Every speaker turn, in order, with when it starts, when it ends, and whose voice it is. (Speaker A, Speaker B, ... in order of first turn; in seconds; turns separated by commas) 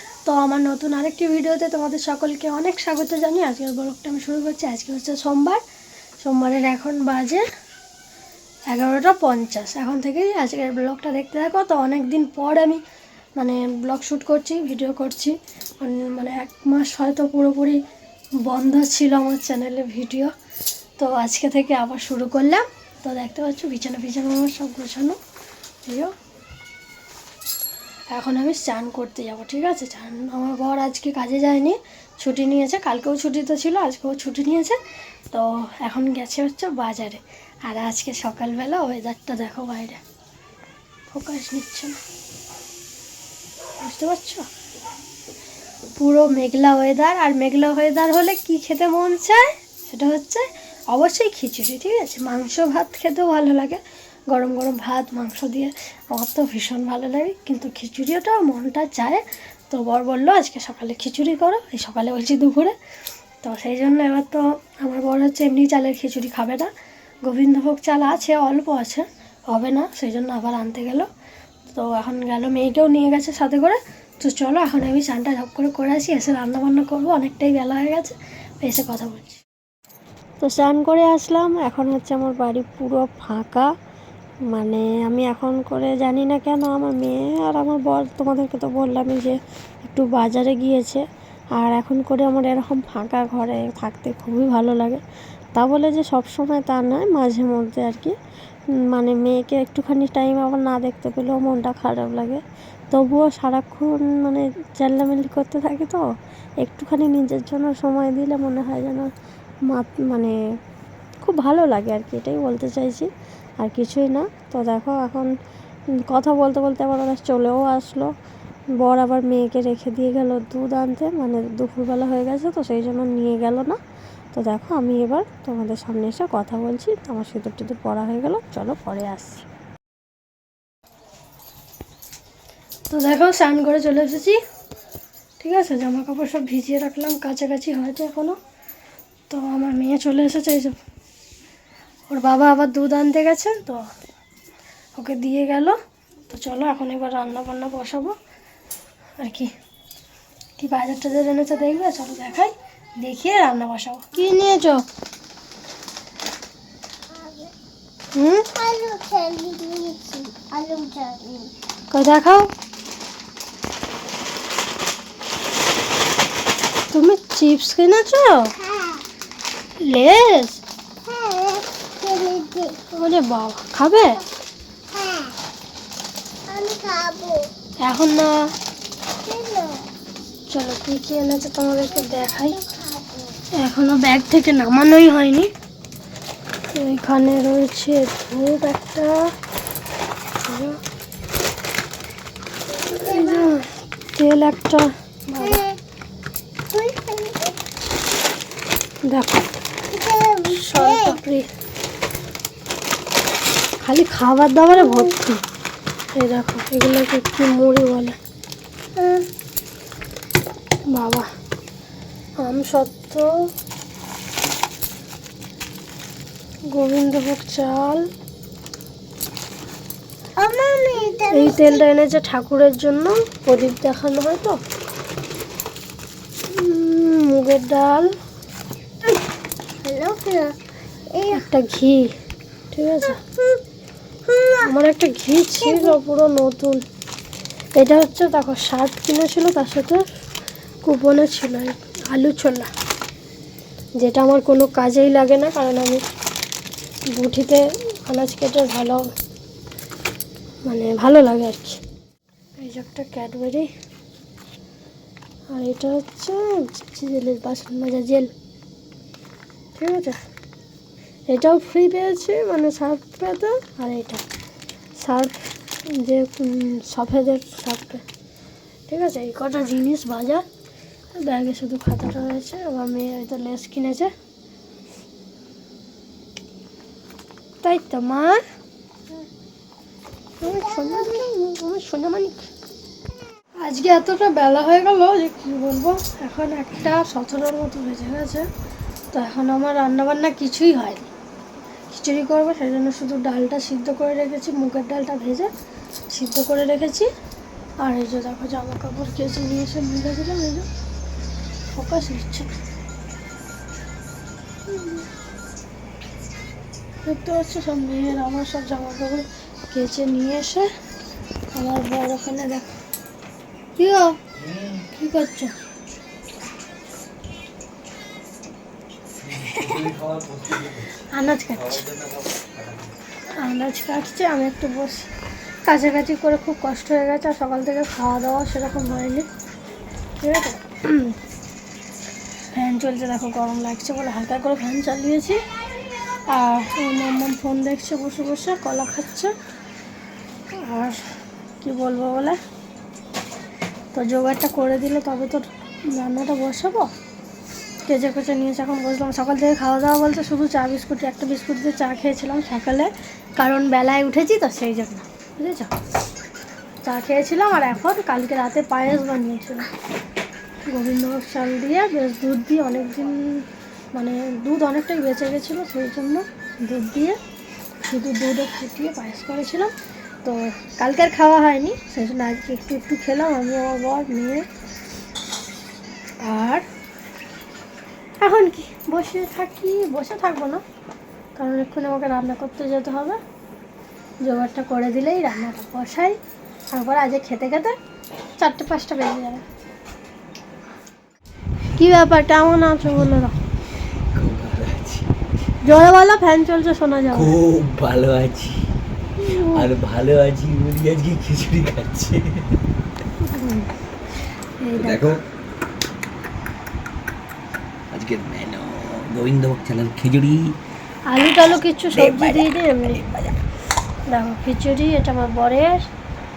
Speaker A: 0.2-5.6, Speaker A: 6.2-7.4, Speaker A: 8.7-12.8, Speaker A: 13.4-17.8, Speaker A: 18.4-20.3, Speaker A: 21.0-25.2, Speaker A: 25.8-26.1, Speaker A: 28.1-34.8, Speaker A: 35.3-40.0, Speaker A: 41.1-42.0, Speaker A: 43.8-44.5, Speaker A: 45.9-53.8, Speaker A: 54.3-62.7, Speaker A: 63.4-66.7, Speaker A: 67.2-71.0, Speaker A: 71.7-79.4, Speaker A: 80.4-83.7, Speaker A: 84.5-91.0, Speaker A: 91.5-95.0, Speaker A: 95.5-98.1, Speaker A: 98.9-106.0, Speaker A: 106.6-109.1, Speaker A: 109.7-110.3, Speaker A: 111.2-115.3, Speaker A: 116.1-118.1, Speaker A: 118.8-123.8, Speaker A: 124.3-129.4, Speaker A: 132.9-134.4, Speaker A: 135.4-138.3, Speaker A: 139.3-140.8, Speaker A: 142.1-143.8, Speaker A: 144.9-145.8, Speaker A: 146.3-148.1, Speaker A: 149.2-149.5, Speaker A: 150.6-154.8, Speaker B: 157.1-157.5, Speaker A: 158.1-158.5, Speaker B: 158.5-161.5, Speaker A: 161.9-162.5, Speaker A: 166.9-168.5, Speaker B: 168.7-169.0, Speaker A: 169.8-170.6, Speaker B: 171.1-172.8, Speaker A: 172.9-174.2, Speaker B: 174.9-175.3, Speaker B: 176.5-177.5, Speaker A: 177.8-178.3, Speaker B: 179.2-179.9, Speaker A: 180.5-182.6, Speaker B: 182.0-183.4, Speaker A: 183.6-185.5, Speaker A: 186.7-189.2, Speaker A: 190.4-190.8, Speaker B: 192.9-193.5, Speaker A: 192.9-195.6, Speaker B: 195.4-195.8, Speaker B: 196.7-197.5, Speaker A: 199.1-199.5, Speaker B: 199.9-201.2, Speaker A: 200.4-201.5, Speaker A: 203.8-205.4, Speaker A: 206.1-208.2, Speaker B: 208.9-209.3, Speaker A: 210.9-211.3, Speaker A: 212.4-213.3, Speaker A: 216.7-218.0, Speaker B: 220.4-221.8, Speaker A: 221.3-224.6, Speaker A: 226.5-228.1, Speaker B: 229.8-230.6, Speaker B: 231.1-231.4, Speaker A: 231.3-232.1, Speaker A: 232.7-233.2, Speaker B: 234.3-234.7, Speaker A: 234.6-236.8, Speaker B: 235.7-235.9, Speaker A: 237.8-240.0, Speaker A: 240.8-242.7, Speaker A: 244.0-246.0, Speaker A: 247.1-249.1, Speaker A: 250.6-251.8, Speaker A: 252.6-253.7, Speaker A: 255.5-258.3, Speaker A: 259.7-260.2, Speaker A: 261.3-264.2, Speaker A: 265.0-268.0, Speaker A: 268.9-270.4, Speaker A: 271.1-274.1, Speaker A: 277.6-278.4, Speaker A: 280.4-282.4, Speaker B: 280.8-281.2, Speaker A: 283.6-288.5, Speaker A: 289.1-291.1, Speaker A: 291.9-295.5, Speaker A: 296.1-297.1, Speaker A: 297.8-300.7, Speaker A: 301.7-302.6, Speaker A: 304.7-305.0, Speaker A: 307.0-310.7, Speaker A: 311.5-312.7, Speaker A: 313.8-314.2, Speaker C: 314.4-314.9, Speaker A: 314.9-315.5, Speaker C: 319.2-322.9, Speaker A: 319.5-319.8, Speaker A: 321.1-321.8, Speaker A: 323.3-325.1, Speaker A: 325.6-329.3, Speaker A: 330.2-331.1, Speaker A: 332.5-335.4, Speaker A: 336.3-339.3, Speaker A: 340.5-341.1, Speaker A: 341.6-342.4, Speaker A: 343.9-346.9, Speaker A: 347.9-355.7, Speaker A: 356.8-359.7, Speaker A: 360.7-367.2, Speaker A: 367.8-369.7, Speaker A: 370.2-374.4, Speaker A: 376.2-376.6, Speaker A: 378.2-380.6, Speaker A: 381.4-383.2, Speaker A: 384.2-386.2, Speaker A: 386.7-387.8, Speaker A: 388.4-389.4, Speaker A: 391.8-393.4, Speaker C: 394.1-395.1, Speaker A: 395.6-397.3, Speaker C: 397.1-398.7, Speaker A: 399.2-399.7, Speaker C: 399.3-402.6, Speaker A: 403.2-405.0, Speaker C: 404.8-405.2, Speaker C: 407.9-410.6, Speaker A: 411.1-413.0, Speaker C: 411.9-413.4, Speaker A: 414.1-415.9